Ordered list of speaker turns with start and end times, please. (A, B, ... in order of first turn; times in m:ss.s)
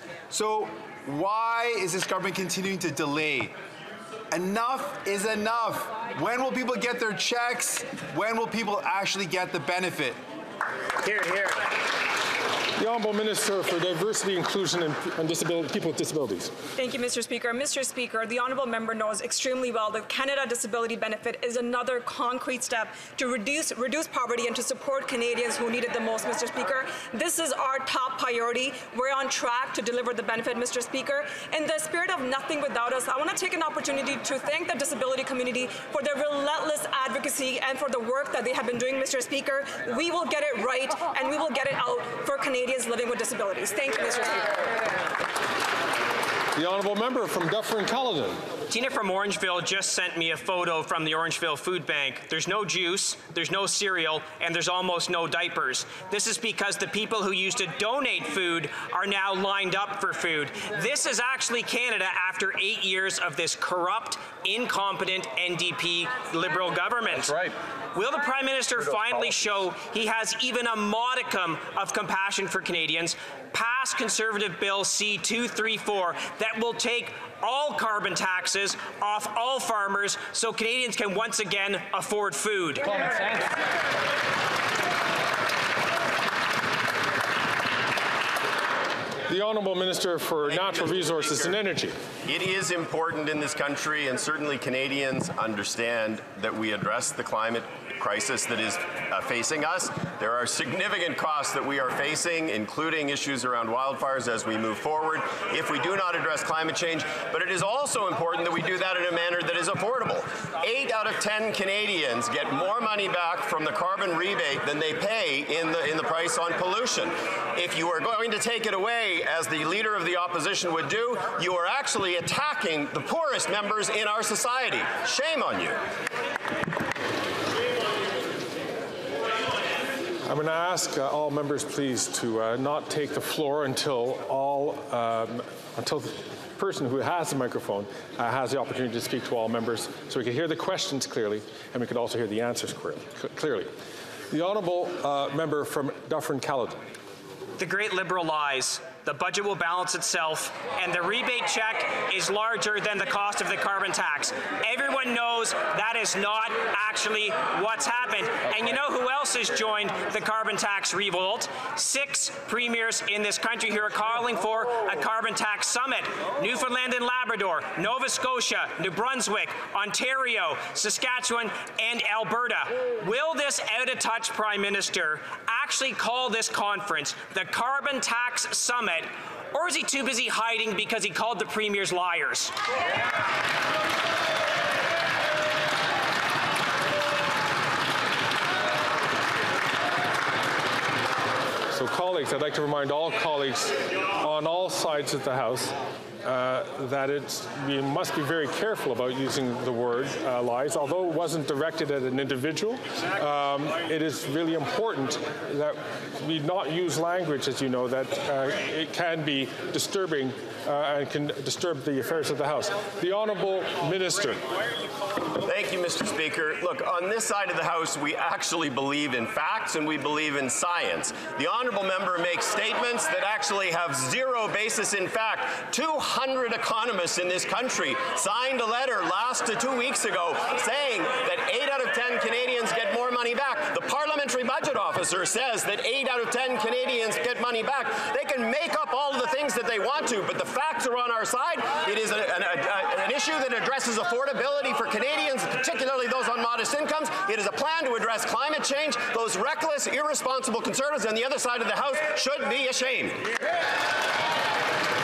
0:00.3-0:03.5 A
0:04.3-0:10.2 A
0:12.8-0:16.5 B
0:16.8-0:44.6 C
0:46.6-0:48.4 B
0:48.7-1:22.9 D
1:29.3-1:32.0 B
1:30.5-1:31.6 E
1:32.2-2:05.8 E
2:10.3-2:23.7 B
2:24.3-2:26.9 B
2:27.6-3:02.5 D
3:11.7-3:34.4 B
3:35.4-4:13.3 E